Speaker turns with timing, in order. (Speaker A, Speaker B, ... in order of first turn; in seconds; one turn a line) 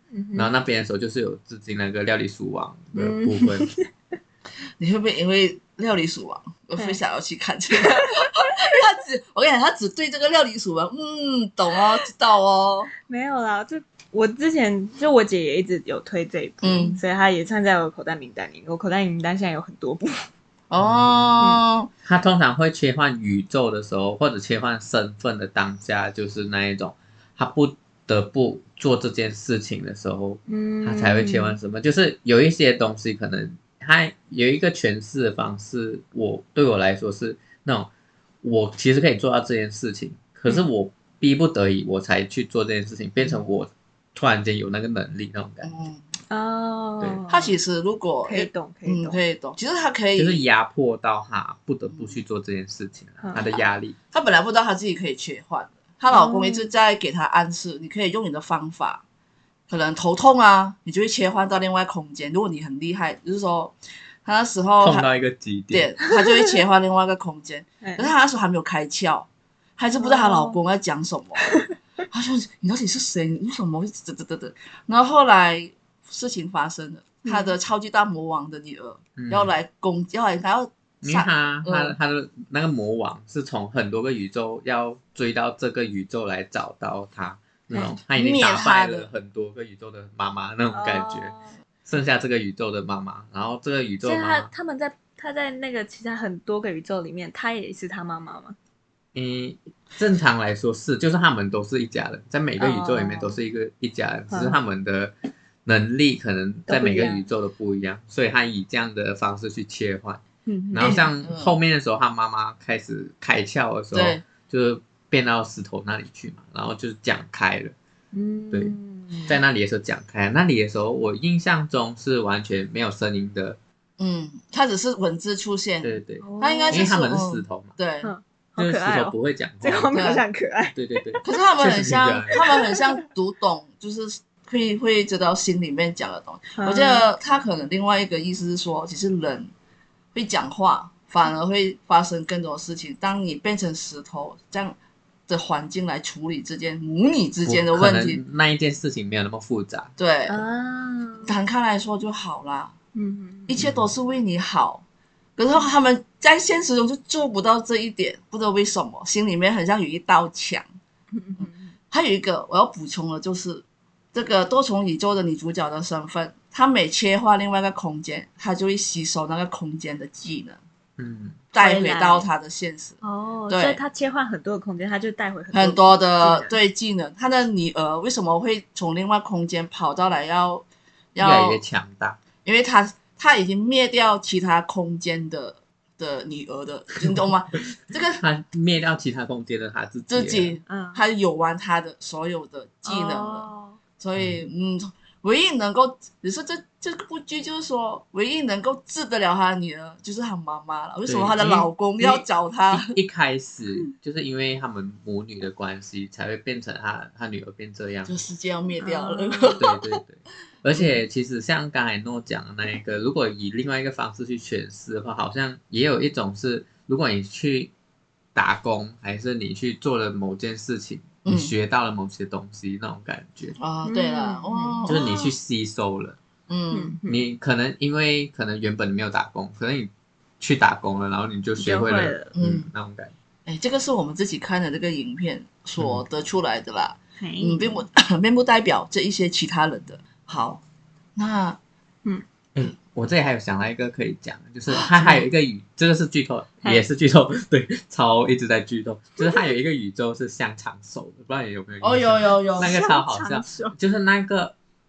Speaker A: 0.1-0.5
Speaker B: 0.3-3.7
Speaker A: 3.0-3.9
Speaker C: 4.8-12.9
Speaker A: 13.1-20.3
Speaker C: 16.6-17.0
Speaker C: 20.7-21.9
Speaker B: 20.8-21.4
Speaker B: 22.0-37.9
Speaker A: 30.5-31.6
Speaker B: 38.4-45.7
Speaker C: 45.6-46.0
Speaker A: 46.3-47.6
Speaker C: 47.3-50.4
Speaker A: 48.2-49.2
Speaker B: 50.1-54.0
Speaker C: 51.9-52.2
Speaker A: 53.2-53.6
Speaker C: 54.1-59.0
Speaker A: 56.1-56.7
Speaker C: 59.7-63.7
Speaker C: 64.2-65.1
Speaker B: 64.8-65.9
Speaker C: 65.7-71.5
Speaker A: 67.8-68.1
Speaker A: 70.0-70.6
Speaker C: 72.1-82.0
Speaker A: 77.2-77.5
Speaker B: 79.2-79.5
Speaker B: 81.0-91.3
Speaker C: 88.1-89.1
Speaker A: 90.7-91.5
Speaker B: 91.8-94.5
Speaker A: 94.0-98.6
Speaker B: 99.1-105.1
Speaker A: 102.6-103.4
Speaker A: 104.3-104.6
Speaker B: 105.6-117.7
Speaker A: 106.7-107.2
Speaker A: 110.5-111.0
Speaker C: 110.8-111.5
Speaker C: 113.9-114.2
Speaker A: 118.1-119.4
Speaker B: 119.3-123.6
Speaker C: 124.0-128.1
Speaker B: 125.8-127.7
Speaker A: 126.2-126.8
Speaker A: 128.0-131.2
Speaker B: 128.6-130.1
Speaker C: 129.9-130.2
Speaker B: 130.7-132.4
Speaker C: 131.2-139.5
Speaker A: 132.4-132.8
Speaker A: 136.6-137.1
Speaker C: 140.1-144.8
Speaker C: 145.3-148.2
Speaker B: 147.4-149.9
Speaker C: 150.0-150.4
Speaker A: 150.3-151.4
Speaker C: 151.2-152.7
Speaker A: 152.9-153.6
Speaker C: 153.5-154.8
Speaker B: 153.6-153.9
Speaker C: 155.4-160.7
Speaker A: 161.1-161.7
Speaker C: 161.4-170.6
Speaker B: 171.0-171.4
Speaker C: 171.5-173.8
Speaker A: 171.5-172.3
Speaker A: 173.0-176.6
Speaker C: 175.5-181.6
Speaker B: 181.2-182.2
Speaker C: 182.4-188.2
Speaker B: 188.2-190.6
Speaker C: 190.1-193.5
Speaker A: 190.7-191.0
Speaker A: 192.8-193.8
Speaker C: 194.0-202.9
Speaker B: 194.2-194.4
Speaker B: 201.1-208.2
Speaker C: 208.1-210.0
Speaker A: 208.8-209.6
Speaker B: 209.6-217.7
Speaker C: 210.7-211.0
Speaker B: 218.3-223.6
Speaker C: 221.2-221.5
Speaker C: 223.6-225.3
Speaker A: 223.8-224.9
Speaker B: 224.9-226.2
Speaker C: 226.5-227.0
Speaker A: 226.7-227.2
Speaker B: 227.1-233.1
Speaker A: 231.6-232.3
Speaker C: 232.3-232.7
Speaker C: 233.4-240.6
Speaker B: 235.8-236.0
Speaker A: 237.2-237.8
Speaker C: 241.2-241.6
Speaker B: 242.5-254.5
Speaker C: 244.7-245.3
Speaker C: 251.8-252.8
Speaker A: 252.6-253.8